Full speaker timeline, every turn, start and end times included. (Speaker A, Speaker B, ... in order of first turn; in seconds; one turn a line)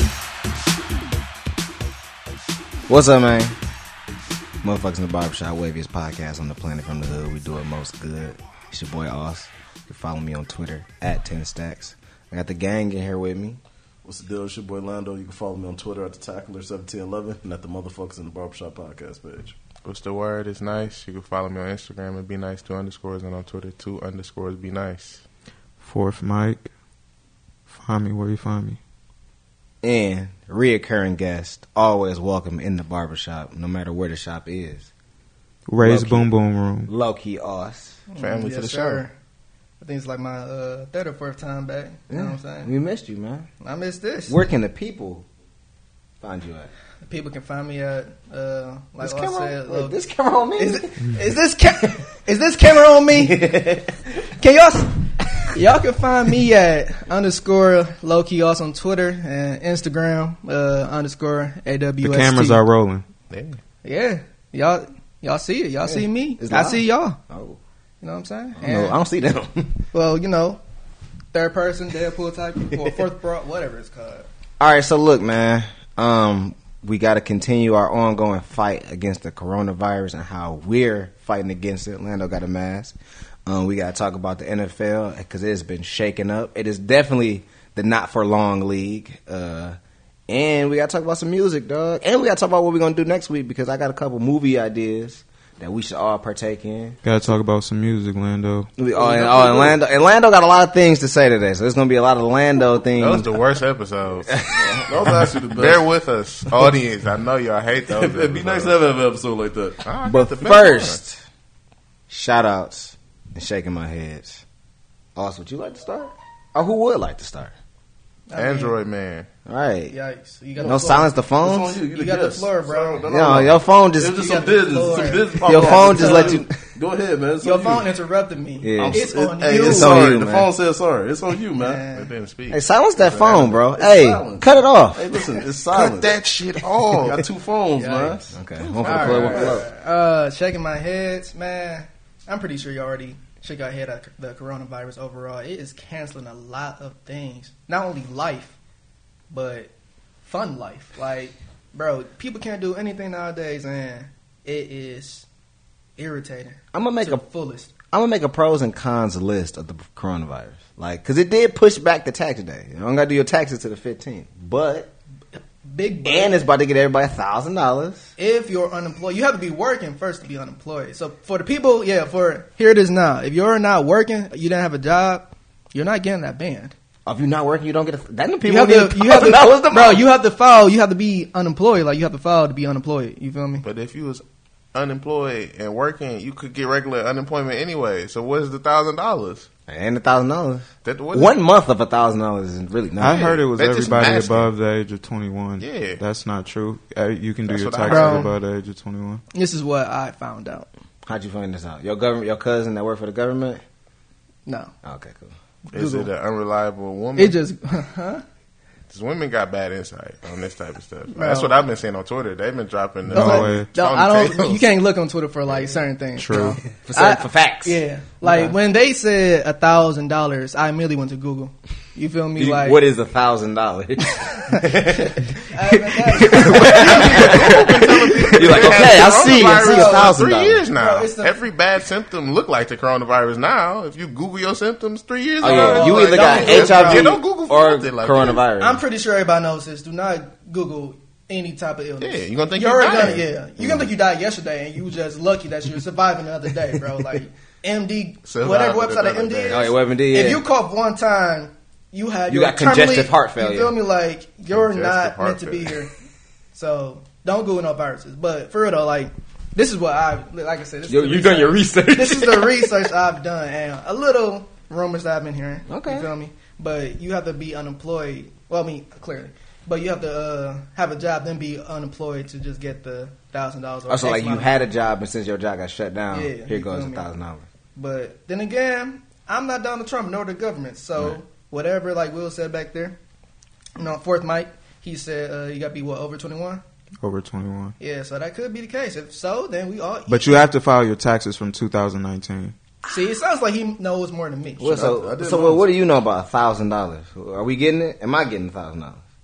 Speaker A: 2.9-3.5
Speaker A: 4.6-13.6
Speaker B: 14.0-19.6
Speaker C: 19.8-25.2
Speaker D: 25.8-26.7
Speaker D: 27.7-28.8
Speaker A: 29.8-34.9
Speaker D: 35.6-36.9
Speaker A: 35.8-36.3
Speaker A: 36.9-38.0
Speaker E: 38.1-39.1
Speaker C: 38.2-39.0
Speaker E: 39.8-42.7
Speaker A: 42.1-43.5
Speaker E: 43.6-44.4
Speaker A: 44.3-45.2
Speaker A: 46.2-46.7
Speaker E: 47.1-50.0
Speaker A: 49.0-50.9
Speaker E: 50.6-53.4
Speaker A: 53.1-53.9
Speaker E: 54.4-55.0
Speaker E: 55.5-62.6
Speaker D: 62.0-63.0
Speaker C: 63.3-63.6
Speaker E: 63.8-67.2
Speaker A: 65.8-67.6
Speaker E: 68.0-69.0
Speaker A: 68.6-69.8
Speaker E: 69.9-70.6
Speaker E: 71.3-74.3
Speaker A: 74.6-97.0
Speaker D: 97.0-98.7
Speaker A: 98.8-103.3
Speaker B: 98.9-99.8
Speaker C: 103.0-104.3
Speaker A: 104.3-104.8
Speaker B: 104.5-105.8
Speaker C: 105.5-108.8
Speaker B: 107.9-109.8
Speaker C: 109.8-111.0
Speaker A: 110.0-111.2
Speaker A: 112.1-114.4
Speaker A: 115.2-117.5
Speaker E: 118.3-118.8
Speaker C: 118.3-119.3
Speaker A: 119.5-119.9
Speaker E: 119.9-121.1
Speaker B: 120.6-127.9
Speaker A: 120.6-121.8
Speaker E: 121.9-123.0
Speaker A: 123.0-124.5
Speaker E: 124.1-126.4
Speaker A: 125.4-126.5
Speaker E: 127.4-130.0
Speaker A: 128.6-130.5
Speaker B: 128.8-131.8
Speaker E: 131.6-132.1
Speaker C: 131.9-133.5
Speaker A: 132.5-135.1
Speaker B: 133.4-136.1
Speaker C: 135.7-137.2
Speaker B: 137.0-139.6
Speaker E: 137.8-148.6
Speaker A: 138.3-139.7
Speaker E: 149.3-149.7
Speaker E: 150.2-155.2
Speaker E: 156.0-157.7
Speaker A: 156.7-157.2
Speaker A: 157.9-164.9
Speaker E: 165.3-166.4
Speaker A: 166.0-168.1
Speaker E: 168.2-176.7
Speaker A: 177.1-180.0
Speaker E: 178.4-183.6
Speaker C: 183.6-189.5
Speaker A: 189.7-193.2
Speaker C: 190.8-191.4
Speaker D: 193.0-199.2
Speaker C: 193.0-194.5
Speaker C: 195.6-196.0
Speaker C: 197.5-198.3
Speaker E: 197.9-198.3
Speaker E: 199.3-200.7
Speaker A: 201.1-203.6
Speaker E: 204.4-204.7
Speaker A: 204.8-205.3
Speaker E: 205.7-206.1
Speaker C: 205.7-207.4
Speaker E: 207.2-208.2
Speaker C: 208.9-214.6
Speaker E: 211.1-211.6
Speaker D: 213.1-213.7
Speaker E: 213.1-222.8
Speaker D: 216.2-216.6
Speaker A: 216.8-218.5
Speaker A: 222.3-230.6
Speaker E: 225.5-227.6
Speaker C: 226.3-238.4
Speaker E: 228.1-230.2
Speaker E: 230.7-231.4
Speaker A: 235.4-238.8
Speaker E: 235.4-237.1
Speaker E: 238.6-255.9
Speaker C: 242.0-243.2
Speaker A: 243.6-243.8
Speaker C: 248.2-249.7
Speaker A: 249.5-250.4
Speaker A: 252.3-253.7
Speaker C: 254.5-255.7
Speaker E: 256.5-274.5
Speaker A: 260.9-262.8
Speaker A: 265.7-266.1
Speaker A: 273.9-277.4
Speaker E: 276.1-277.1
Speaker E: 277.8-283.0
Speaker E: 283.8-286.6
Speaker D: 287.0-287.7
Speaker E: 287.8-290.5
Speaker D: 290.1-292.5
Speaker E: 292.9-294.9
Speaker A: 294.6-299.0
Speaker B: 294.6-295.6